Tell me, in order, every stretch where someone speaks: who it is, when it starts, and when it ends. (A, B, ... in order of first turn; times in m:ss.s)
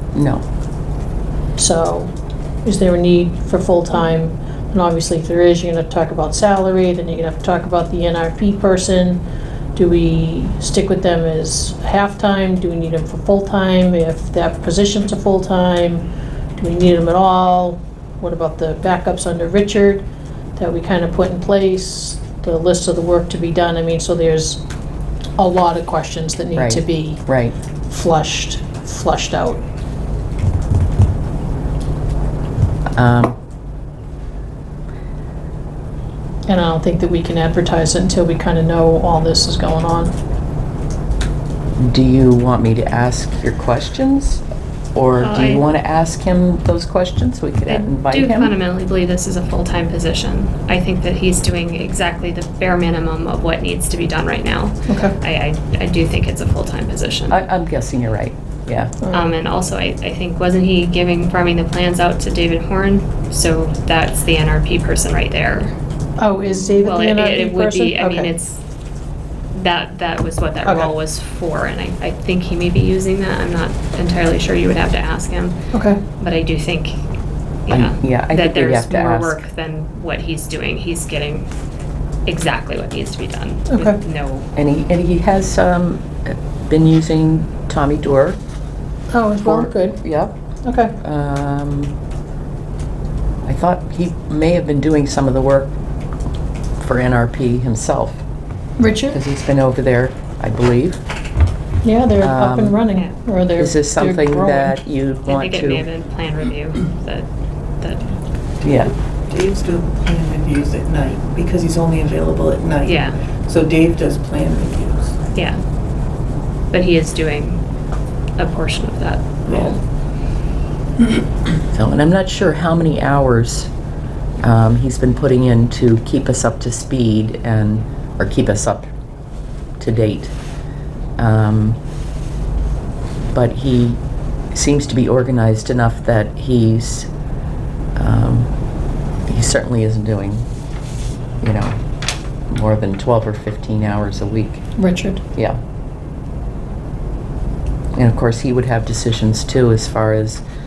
0:00.1-0:00.4 A
0:01.6-0:02.1 B
0:02.6-0:09.2 B
0:09.8-0:24.6 B
0:25.4-0:27.2 B
0:26.5-0:27.6 A
0:27.9-0:29.6 B
0:32.9-0:33.4 A
0:36.5-0:40.1 B
0:41.8-0:44.4 A
0:44.9-0:48.5 A
0:45.2-0:45.6 C
0:47.7-0:57.4 C
0:54.9-0:55.2 B
0:57.3-0:58.9 A
0:59.0-0:59.3 B
0:59.1-1:05.7 C
1:06.2-1:08.3 B
1:06.7-1:08.6 C
1:09.5-1:15.6 C
1:10.6-1:10.9 B
1:15.7-1:16.0 B
1:16.2-1:17.0 C
1:17.7-1:21.5 C
1:17.7-1:19.4 A
1:22.2-1:24.5 C
1:23.7-1:24.0 B
1:24.6-1:28.4 A
1:29.1-1:30.0 B
1:29.4-1:30.4 A
1:30.6-1:30.9 B
1:31.0-1:31.9 A
1:33.4-1:35.8 A
1:36.8-1:38.2 A
1:38.8-1:39.2 B
1:39.1-1:41.0 A
1:41.8-1:44.8 B
1:42.2-1:42.8 A
1:43.6-1:45.8 A
1:45.2-1:47.3 C
1:47.8-1:48.2 C
1:48.6-1:48.9 A
1:49.3-1:55.2 D
1:52.8-1:53.2 C
1:55.3-1:55.6 C
1:56.7-1:57.6 C
1:58.4-1:59.8 C
2:01.7-2:03.7 A
2:04.4-2:08.9 A
2:09.8-2:10.3 A
2:11.2-2:11.8 A
2:13.3-2:14.0 A
2:14.5-2:17.1 A
2:18.0-2:18.5 A
2:19.3-2:20.4 A
2:21.4-2:21.8 A
2:22.5-2:24.6 A
2:24.8-2:25.2 B
2:27.9-2:30.4 A